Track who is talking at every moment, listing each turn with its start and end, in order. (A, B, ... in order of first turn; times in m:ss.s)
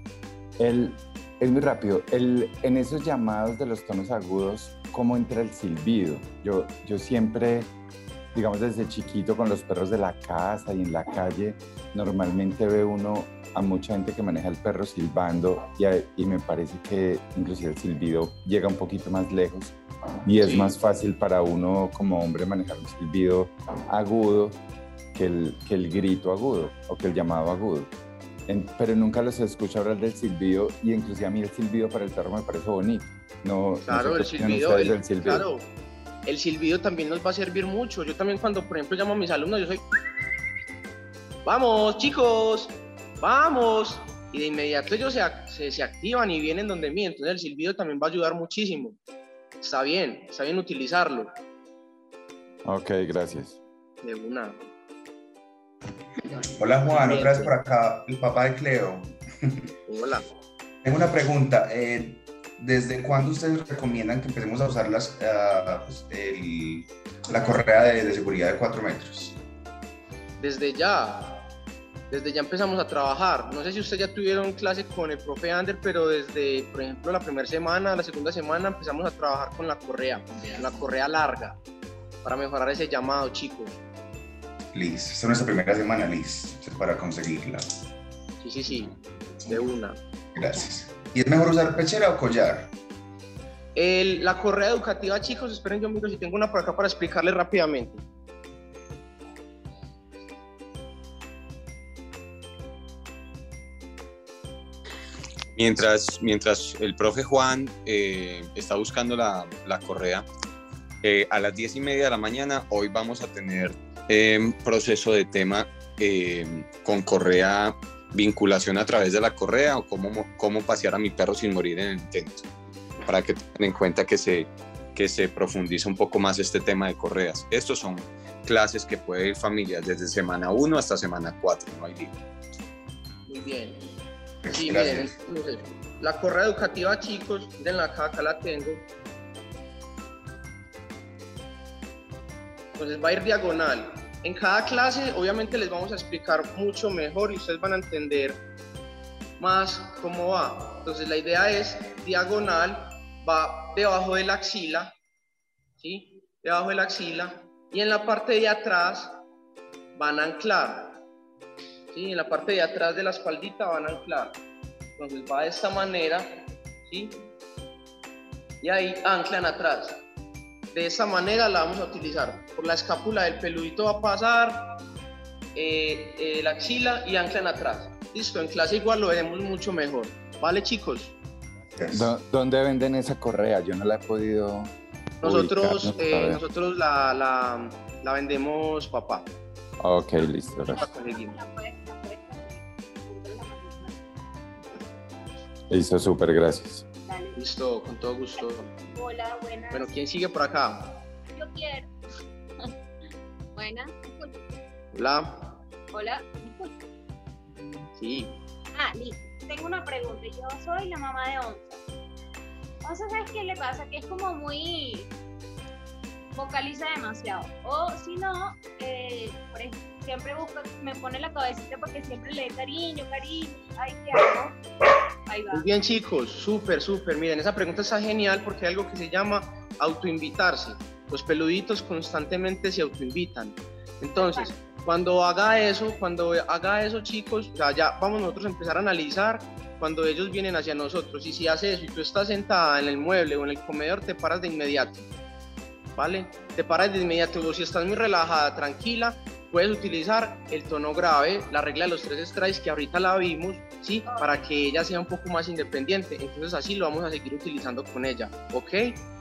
0:00.6-0:07.7 A
0:08.3-0:24.6 A
0:25.1-0:27.9 A
0:28.5-0:35.4 A
0:33.8-0:35.7 B
0:36.2-0:39.8 B
0:41.4-0:49.0 B
0:49.6-0:51.3 B
0:52.6-0:53.6 A
0:54.0-0:54.6 B
0:56.6-0:59.7 C
0:56.9-0:57.5 B
0:59.8-1:00.2 B
1:00.8-1:09.4 C
1:10.4-1:11.4 B
1:12.1-1:21.6 B
1:22.2-1:23.7 B
1:24.7-1:27.7 C
1:28.4-1:28.9 B
1:29.4-1:30.0 B
1:30.3-1:32.7 C
1:33.7-1:38.0 B
1:45.6-1:50.3 D
1:51.0-2:02.5 D
2:03.0-2:12.1 D
2:13.3-2:13.9 B
2:14.4-2:15.1 C
2:14.5-2:18.9 B
2:22.8-2:28.4 B
2:29.4-2:34.9 B
2:35.8-2:39.2 B
2:40.0-2:41.0 B
2:41.9-2:44.4 B
2:45.0-2:47.3 B
2:48.6-2:50.0 B
2:50.7-2:54.7 B
2:55.5-3:01.1 B
3:01.7-3:02.1 C
3:01.9-3:06.4 A
3:05.2-3:09.3 B
3:09.8-3:10.8 A
3:10.7-3:14.0 E
3:10.7-3:11.4 B
3:15.7-3:16.8 A
3:17.1-3:17.4 E
3:17.4-3:18.7 B
3:18.9-3:20.4 E
3:19.7-3:21.0 B
3:21.3-3:21.9 E
3:23.5-3:24.4 E
3:24.9-3:25.6 B
3:25.9-3:26.7 E
3:27.9-3:28.4 B
3:28.7-3:31.8 E
3:32.8-3:35.1 E
3:36.3-3:44.6 E
3:45.3-3:45.7 E
3:45.5-4:05.0 B
3:54.2-3:54.6 E
4:06.0-4:19.1 B
4:14.0-4:14.5 E